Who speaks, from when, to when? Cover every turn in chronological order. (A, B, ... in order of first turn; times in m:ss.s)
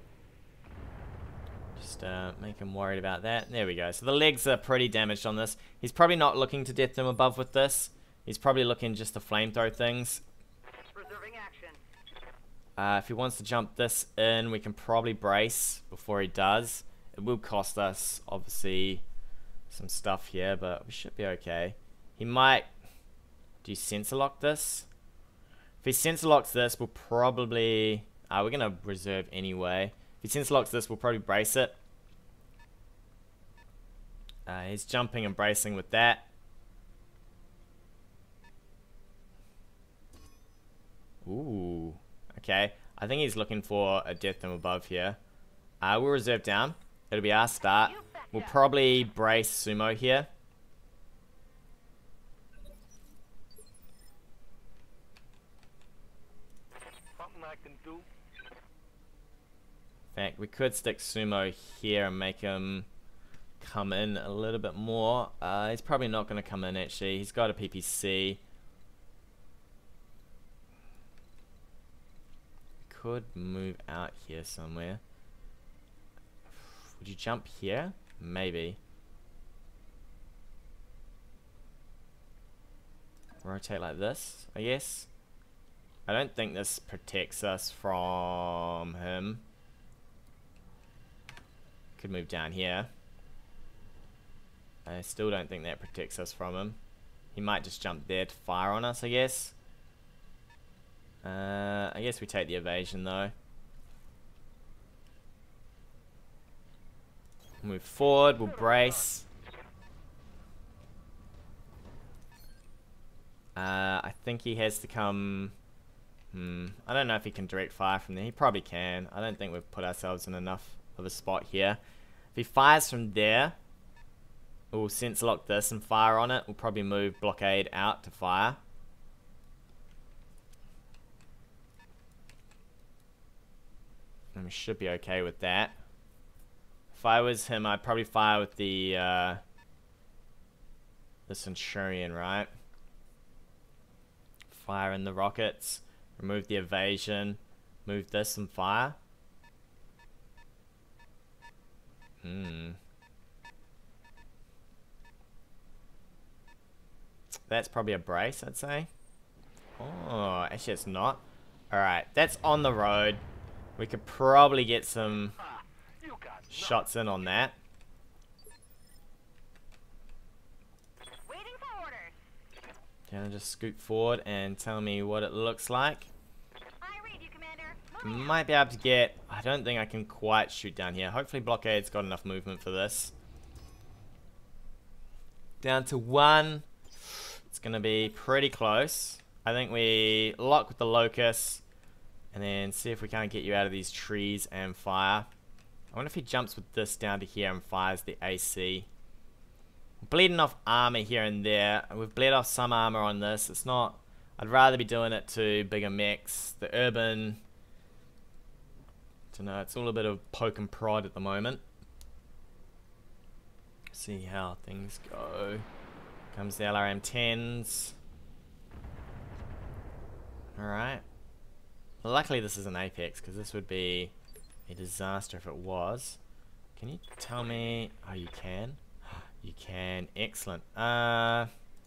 0:01.8-0:10.2 A
0:10.9-0:11.8 B
0:12.8-0:19.0 A
0:19.7-0:22.7 A
0:23.6-0:24.9 A
0:25.8-0:31.8 A
0:34.5-0:36.3 A
0:41.2-0:45.2 A
0:45.8-0:50.3 A
0:47.6-0:48.8 B
0:57.2-0:58.1 C
1:00.2-1:02.9 A
1:03.6-1:08.4 A
1:12.9-1:15.0 A
1:16.5-1:18.8 A
1:23.4-1:25.1 A
1:26.1-1:29.4 A
1:32.0-1:32.9 A
1:34.8-1:36.8 A
1:37.3-1:39.6 A
1:41.2-1:43.3 A
1:47.6-1:49.3 A
1:48.3-1:49.1 C
1:53.6-1:55.6 A
1:56.3-2:01.8 A
2:02.4-2:03.6 A
2:04.7-2:08.6 A
2:14.3-2:15.8 A
2:16.9-2:19.4 A
2:21.3-2:22.5 A
2:24.5-2:29.0 A
2:32.2-2:32.8 A
2:37.5-2:38.9 A
2:39.8-2:43.2 A
2:43.8-2:45.4 A
2:45.4-2:46.9 C
2:46.5-2:47.6 A
2:51.2-2:52.2 B
2:53.1-2:56.1 A
2:56.8-2:58.4 B
2:58.0-3:03.1 A
3:05.6-3:11.6 A
3:12.3-3:15.3 A
3:15.9-3:18.9 A
3:20.0-3:27.4 A
3:29.3-3:31.6 A
3:33.9-3:35.7 A
3:36.3-3:38.0 A
3:40.6-3:41.0 A
3:42.0-3:44.1 A
3:44.7-3:46.2 A
3:46.8-3:51.5 A